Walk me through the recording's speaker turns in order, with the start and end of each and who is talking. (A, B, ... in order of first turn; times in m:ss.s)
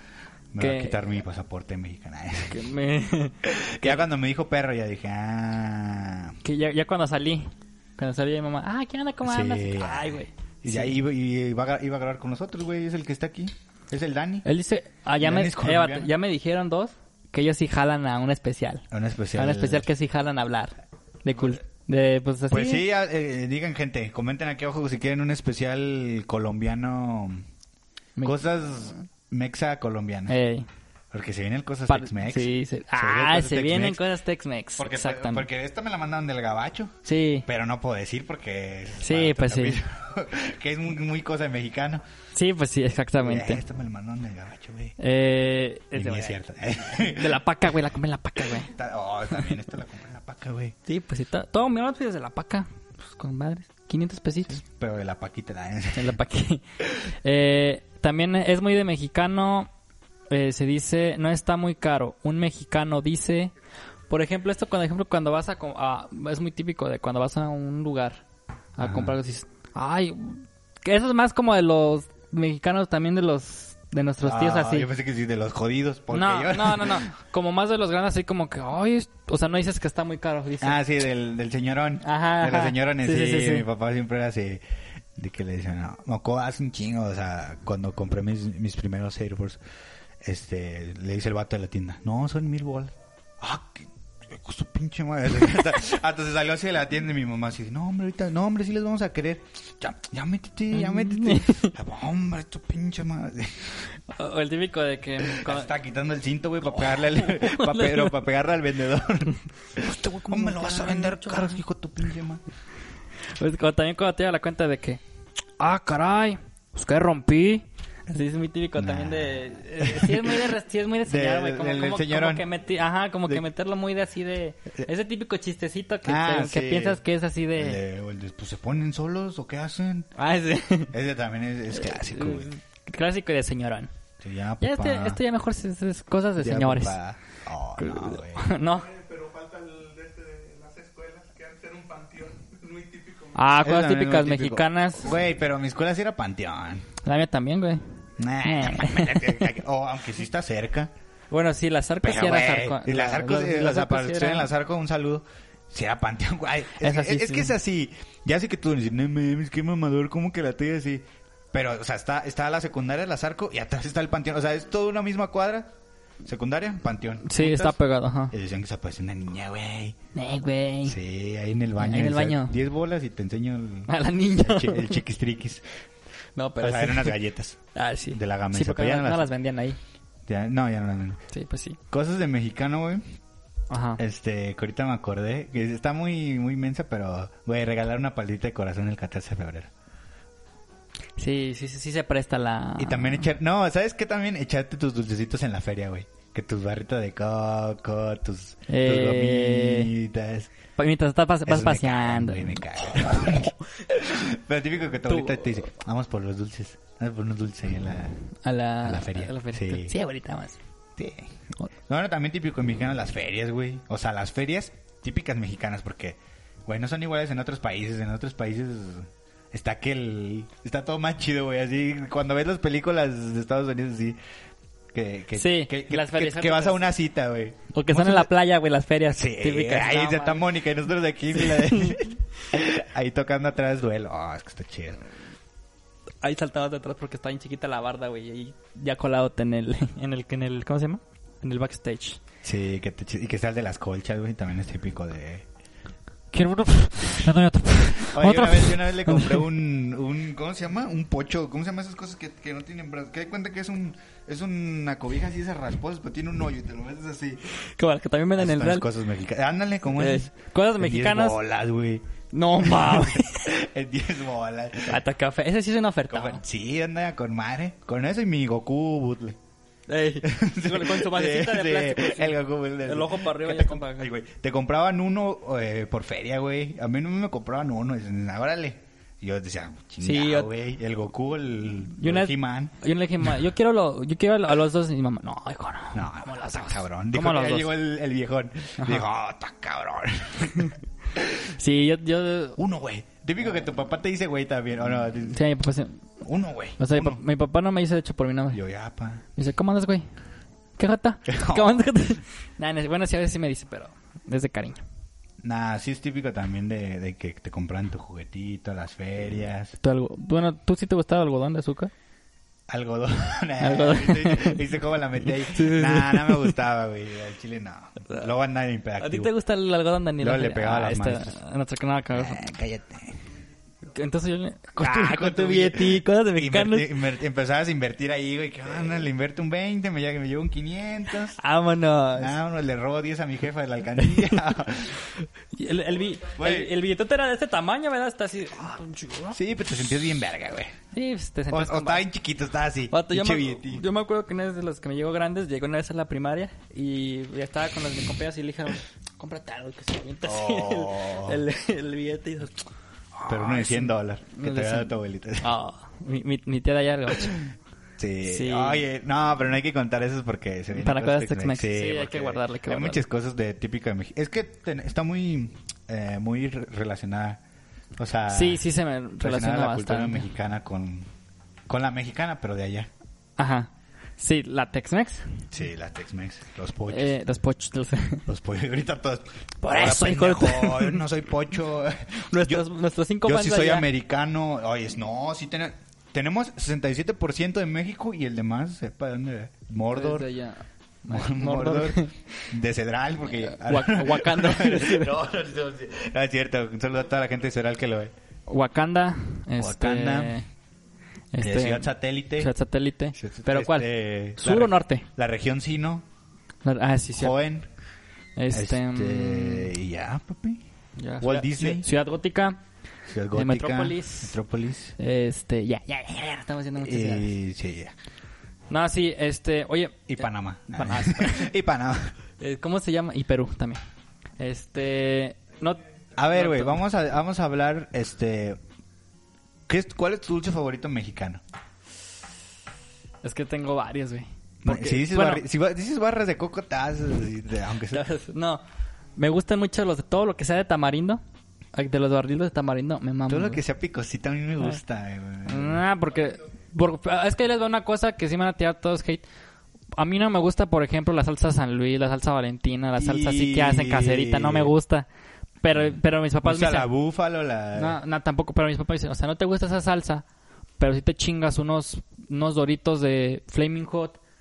0:00.5-0:02.7 A
0:00.6-0:01.0 B
0:02.5-0:04.0 B
0:03.4-0:06.4 A
0:06.4-0:11.0 B
0:09.2-0:14.4 A
0:14.4-0:22.8 B
0:15.2-0:16.1 A
0:18.9-0:19.9 A
0:22.5-0:27.4 A
0:28.2-0:30.4 A
0:30.3-0:30.7 B
0:31.1-0:34.0 A
0:31.9-0:35.5 B
0:34.8-0:42.0 A
0:37.0-0:37.5 B
0:39.0-0:39.8 B
0:42.3-0:43.6 B
0:43.2-0:45.0 A
0:45.0-0:46.4 B
0:45.9-0:47.4 A
0:46.9-0:48.7 B
0:48.4-0:50.8 A
0:50.9-0:54.6 B
0:54.6-0:56.2 A
0:56.0-0:59.7 B
1:00.3-1:03.5 B
1:04.1-1:08.2 B
1:08.8-1:14.9 B
1:08.8-1:09.2 A
1:14.2-1:17.1 A
1:16.1-1:20.8 B
1:20.6-1:24.6 A
1:22.0-1:23.7 B
1:25.2-1:29.6 A
1:30.2-1:43.9 A
1:40.7-1:41.7 B
1:44.1-1:45.7 B
1:45.2-1:52.4 A
1:46.7-1:48.2 B
1:49.8-1:51.6 B
1:53.3-1:55.0 B
1:55.6-2:07.8 B
1:58.8-2:00.5 A
2:01.1-2:02.4 A
2:06.0-2:07.0 A
2:07.6-2:10.1 A
2:10.2-2:10.9 B
2:10.9-2:12.5 A
2:11.8-2:13.9 B
2:14.2-2:15.2 A
2:14.6-2:17.0 B
2:16.4-2:18.6 A
2:17.8-2:18.9 B
2:18.7-2:23.5 C
2:23.4-2:25.2 B
2:23.6-2:26.9 A
2:27.0-2:27.8 B
2:28.2-2:30.9 A
2:28.4-2:29.5 B
2:31.3-2:34.5 B
2:32.0-2:45.7 A
2:36.8-2:37.5 B
2:46.2-2:47.8 A
2:47.2-2:48.3 B
2:48.3-2:50.0 A
2:50.1-2:51.0 B
2:50.8-2:55.6 A
2:51.8-2:52.6 B
2:53.9-2:55.0 B
2:56.4-2:57.2 B
2:56.6-2:57.6 A
2:57.8-2:59.8 B
2:58.1-2:59.3 A
3:00.3-3:01.2 A
3:01.3-3:01.8 B
3:01.9-3:03.0 A
3:03.7-3:04.0 B
3:04.0-3:09.7 A
3:11.2-3:13.3 B
3:12.8-3:20.5 A
3:18.7-3:19.9 B
3:20.8-3:23.5 B
3:21.5-3:28.2 A
3:25.1-3:25.6 B
3:28.4-3:30.6 B
3:28.8-3:29.9 A
3:31.0-3:44.2 A
3:44.9-3:48.3 A
3:45.4-3:46.8 B
3:47.7-3:50.5 B
3:49.1-3:55.0 A
3:51.3-3:52.1 B
3:56.2-4:02.2 B
4:02.4-4:05.4 A
4:06.3-4:09.5 B
4:07.8-4:17.6 A
4:17.7-4:18.9 B
4:18.4-4:25.0 A
4:20.0-4:21.4 B
4:22.3-4:23.5 B
4:24.9-4:26.4 B
4:26.1-4:29.4 A
4:29.9-4:34.1 B
4:30.2-4:42.7 A
4:40.0-4:40.5 B
4:42.0-4:47.7 B
4:45.9-4:51.5 A
4:48.8-4:49.0 B
4:51.6-4:52.6 B
4:52.6-4:55.4 A
4:55.3-4:56.0 B
4:56.2-4:57.2 A
4:56.8-4:58.6 B
4:58.5-4:59.2 A
4:59.4-5:00.1 B
5:00.8-5:04.8 B
5:01.3-5:01.9 A
5:05.4-5:09.8 A
5:09.8-5:11.9 B
5:12.7-5:19.3 A
5:13.6-5:14.6 B
5:15.4-5:16.6 B
5:19.0-5:22.4 B
5:20.2-5:21.4 A
5:22.1-5:23.2 A
5:23.9-5:27.0 B
5:24.8-5:31.4 A
5:31.4-5:32.4 B
5:32.2-5:35.0 A
5:35.2-5:39.4 B
5:36.4-5:36.8 A
5:39.3-5:40.8 A
5:40.9-5:42.1 B
5:41.5-5:43.8 A
5:42.9-5:52.7 B
5:50.2-5:51.4 A
5:53.2-5:57.4 B
5:53.3-5:55.5 A
5:58.0-6:07.4 A
5:58.2-5:58.8 B
6:00.7-6:03.0 B
6:08.0-6:08.7 A
6:08.3-6:10.3 B
6:09.2-6:11.1 A
6:11.7-6:12.9 A
6:13.4-6:15.4 B
6:15.5-6:17.2 A
6:16.9-6:18.3 B
6:18.3-6:22.6 A
6:19.6-6:21.0 B
6:22.3-6:23.9 B
6:23.2-6:30.3 A
6:29.9-6:32.5 B
6:31.1-6:38.1 A
6:33.4-6:35.1 B
6:38.5-6:40.5 B
6:39.6-6:40.4 A
6:41.3-6:45.1 B
6:41.4-6:42.5 A
6:43.2-6:46.0 A
6:46.6-6:47.4 B
6:47.2-6:47.7 A
6:48.4-6:49.7 B
6:48.5-6:50.6 A
6:51.0-6:52.6 B
6:51.2-6:51.9 A
6:53.1-6:55.0 A
6:53.3-6:54.4 B
6:55.0-6:57.3 B
6:56.8-6:57.9 A
6:58.7-7:01.5 B
7:00.1-7:02.1 A
7:02.4-7:03.8 B
7:04.4-7:06.8 B
7:06.2-7:08.6 A
7:09.7-7:11.4 A
7:13.2-7:15.4 B
7:14.6-7:18.0 A
7:17.9-7:18.6 B
7:19.2-7:21.2 B
7:21.7-7:23.6 B
7:23.3-7:25.8 A
7:25.4-7:29.2 B
7:30.0-7:35.1 B
7:33.0-7:34.7 A
7:35.6-7:36.9 B
7:35.8-7:38.0 A
7:37.8-7:40.2 B
7:40.8-7:44.2 B